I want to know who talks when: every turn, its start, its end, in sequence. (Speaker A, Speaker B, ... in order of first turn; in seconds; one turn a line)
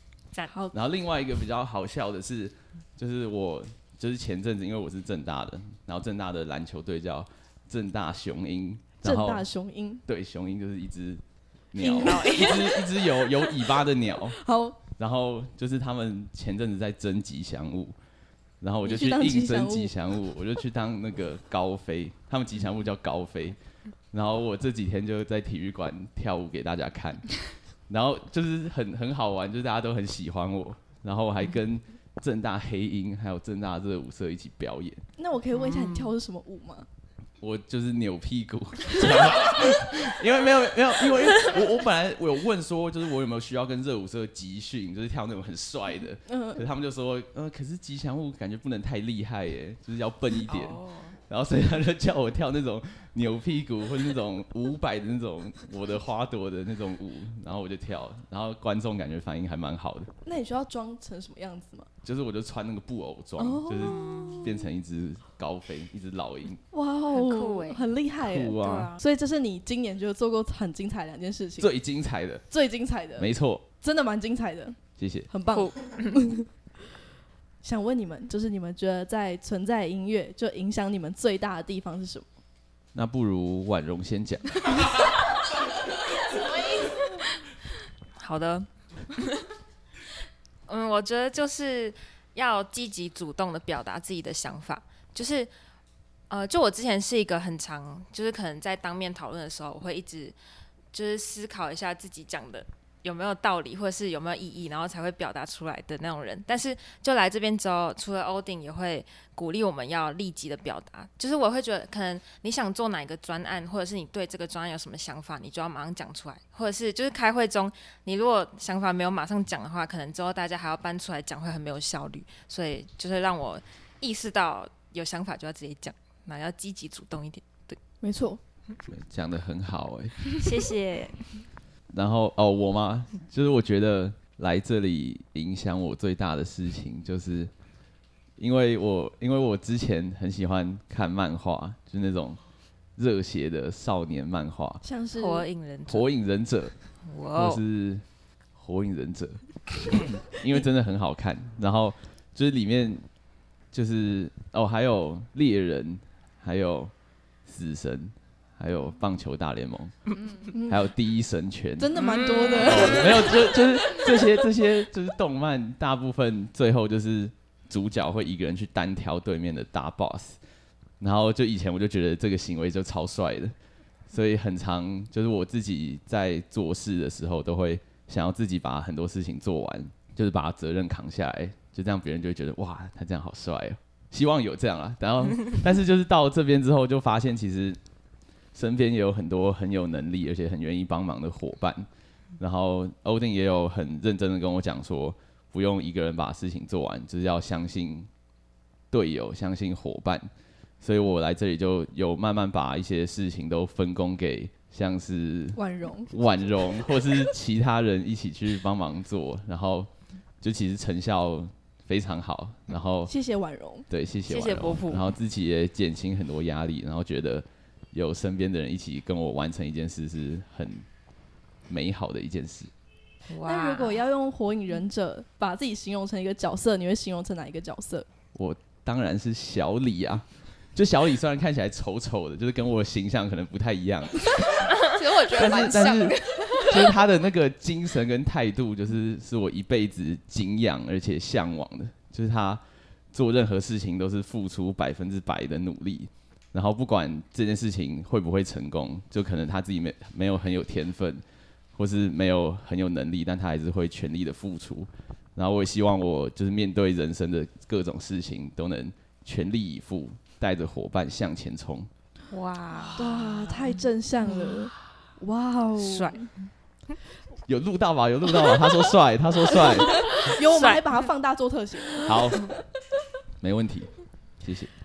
Speaker A: 0.7-9.4
Speaker B: 9.0-10.0
Speaker A: 10.1-14.4
Speaker B: 11.8-12.4
Speaker C: 12.0-12.9
Speaker B: 14.3-14.8
Speaker A: 15.0-17.9
Speaker A: 18.6-23.6
Speaker B: 18.8-19.9
Speaker A: 24.1-35.0
Speaker B: 35.2-36.9
Speaker C: 35.5-36.1
Speaker A: 37.4-60.1
Speaker B: 46.3-46.6
Speaker C: 50.5-51.2
Speaker B: 60.2-61.9
Speaker A: 62.0-66.6
Speaker B: 63.4-64.6
Speaker C: 63.9-64.5
Speaker B: 66.7-71.7
Speaker C: 67.1-67.9
Speaker A: 68.2-68.9
Speaker C: 68.6-69.0
Speaker A: 71.6-72.5
Speaker B: 72.5-73.3
Speaker A: 73.2-73.7
Speaker B: 73.8-74.8
Speaker A: 75.0-75.3
Speaker B: 75.3-76.5
Speaker C: 75.5-76.3
Speaker B: 77.6-82.3
Speaker A: 82.9-85.1
Speaker C: 88.2-89.5
Speaker C: 90.7-95.5
Speaker C: 96.3-100.4
Speaker C: 100.9-127.8
Speaker B: 128.0-128.4
Speaker A: 128.9-130.3
Speaker C: 130.4-131.3
Speaker A: 131.9-137.5
Speaker A: 138.4-142.4
Speaker A: 143.0-144.8
Speaker B: 144.8-145.5
Speaker C: 145.2-146.1
Speaker A: 145.9-146.8
Speaker C: 147.1-147.6
Speaker A: 147.3-148.0
Speaker A: 148.6-153.1
Speaker A: 153.7-156.9
Speaker A: 157.5-160.1
Speaker D: 160.2-160.5
Speaker B: 160.5-160.9
Speaker A: 160.7-161.9
Speaker B: 161.8-163.6
Speaker C: 162.0-163.3
Speaker A: 162.6-170.4
Speaker A: 171.0-173.5
Speaker A: 174.1-187.8
Speaker A: 188.6-191.9
Speaker A: 192.4-198.1
Speaker A: 198.9-200.3
Speaker A: 200.8-209.9
Speaker B: 205.6-206.1
Speaker A: 210.4-213.1
Speaker B: 213.1-213.9
Speaker A: 213.9-220.8
Speaker C: 214.3-215.1
Speaker A: 221.7-222.7
Speaker C: 223.3-224.0
Speaker B: 223.5-228.1
Speaker A: 228.3-234.6
Speaker D: 234.8-236.9
Speaker A: 235.3-242.6
Speaker A: 243.1-251.2
Speaker A: 251.8-261.9
Speaker C: 262.3-263.7
Speaker B: 263.0-266.3
Speaker C: 265.8-266.2
Speaker A: 267.5-270.1
Speaker B: 269.6-272.4
Speaker C: 270.2-270.9
Speaker A: 272.0-272.5
Speaker A: 273.4-274.7